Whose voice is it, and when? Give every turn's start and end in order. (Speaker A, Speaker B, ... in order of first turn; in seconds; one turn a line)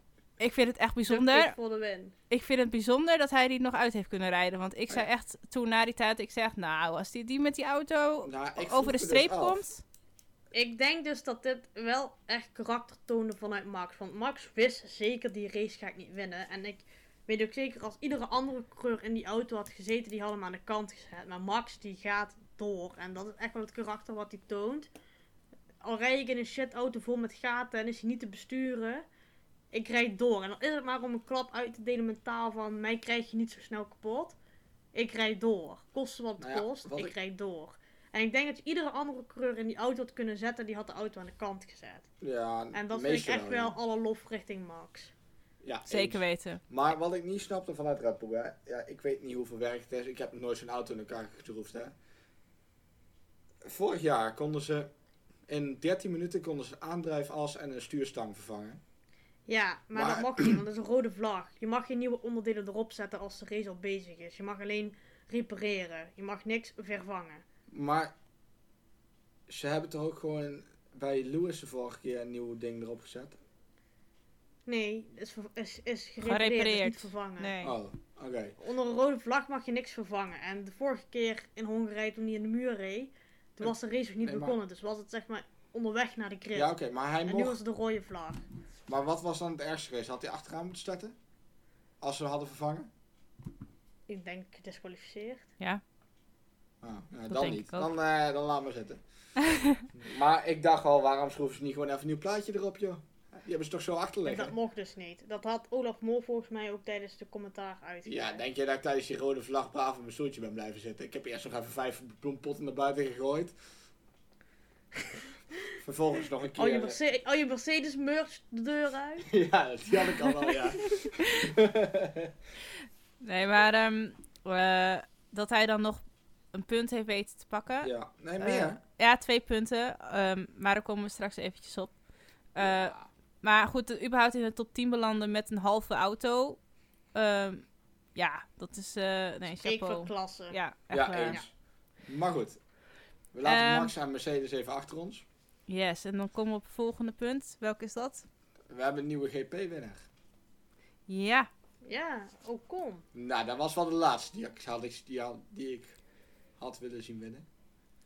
Speaker A: 0.4-1.6
Speaker B: 1.1-2.1
Speaker A: 2.3-9.8
Speaker C: 8.2-9.6
Speaker B: 10.5-24.9
Speaker B: 25.8-29.1
Speaker B: 29.7-34.4
Speaker B: 34.9-42.1
Speaker C: 36.4-37.1
Speaker C: 42.2-43.8
Speaker B: 42.7-45.1
Speaker C: 45.6-52.0
Speaker A: 45.9-46.6
Speaker C: 53.6-54.9
Speaker C: 55.5-58.8
Speaker B: 59.5-67.4
Speaker C: 60.0-60.6
Speaker C: 67.7-68.1
Speaker C: 69.5-73.4
Speaker B: 74.7-77.5
Speaker A: 76.2-77.8
Speaker C: 77.6-78.6
Speaker B: 78.6-86.7
Speaker C: 84.2-84.6
Speaker C: 86.5-87.6
Speaker B: 87.3-88.4
Speaker C: 88.9-91.2
Speaker C: 92.0-92.9
Speaker B: 94.1-95.5
Speaker C: 96.8-99.0
Speaker A: 97.3-97.9
Speaker A: 99.4-99.8
Speaker C: 99.9-104.5
Speaker B: 104.2-108.4
Speaker C: 108.1-113.5
Speaker C: 115.8-117.0
Speaker B: 116.6-119.3
Speaker C: 119.3-122.3
Speaker A: 121.2-121.5
Speaker A: 123.2-126.0
Speaker A: 126.5-131.9
Speaker C: 127.8-128.8
Speaker A: 132.6-136.6
Speaker C: 132.6-133.1
Speaker A: 137.1-141.4
Speaker B: 139.6-140.6
Speaker C: 140.9-141.5
Speaker C: 142.1-142.6
Speaker C: 143.3-145.2
Speaker A: 143.4-143.9
Speaker A: 145.7-148.3
Speaker C: 148.7-150.1
Speaker A: 151.1-151.5
Speaker B: 151.8-153.1
Speaker C: 153.1-156.0
Speaker C: 156.6-157.4